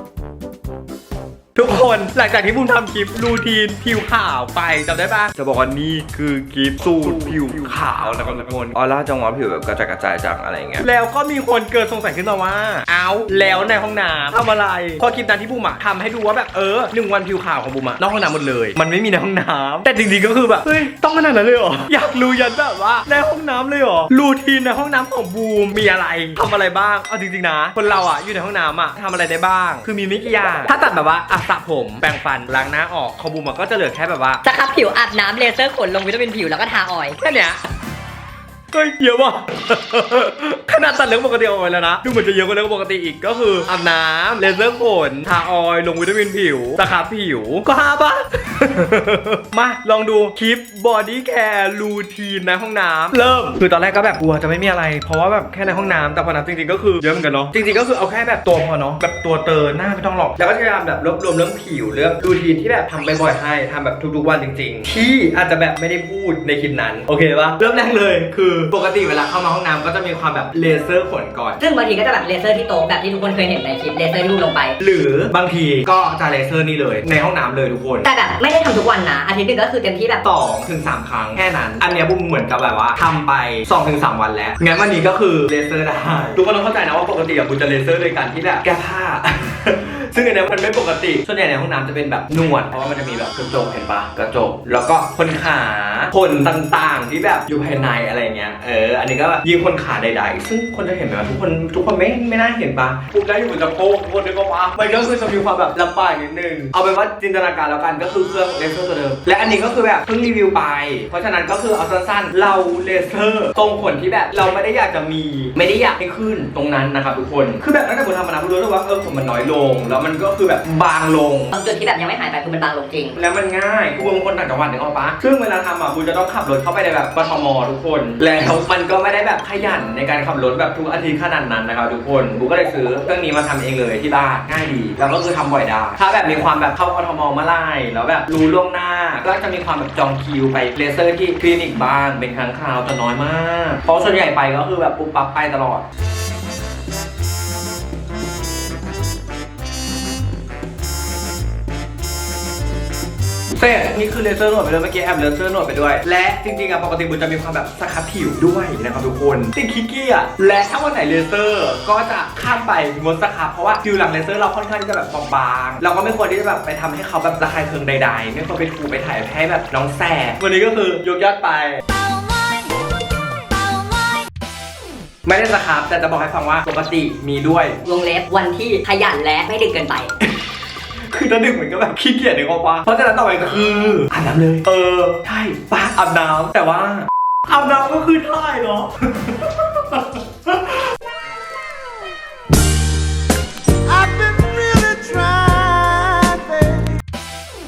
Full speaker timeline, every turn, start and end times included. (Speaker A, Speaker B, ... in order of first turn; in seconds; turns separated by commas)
Speaker A: 1.6-34.4, Speaker B: 34.4-37.2, Speaker A: 37.2-37.6, Speaker A: 38.7-71.6, Speaker B: 71.6-74.8, Speaker A: 74.8-78.1, Speaker B: 78.0-80.2, Speaker A: 80.2-121.5, Speaker B: 121.5-123.2, Speaker A: 123.2-145.8, Speaker A: 153.6-171.8, Speaker A: 175.2-177.8, Speaker B: 177.8-180.1, Speaker A: 181.1-190.9, Speaker C: 193.9-196.9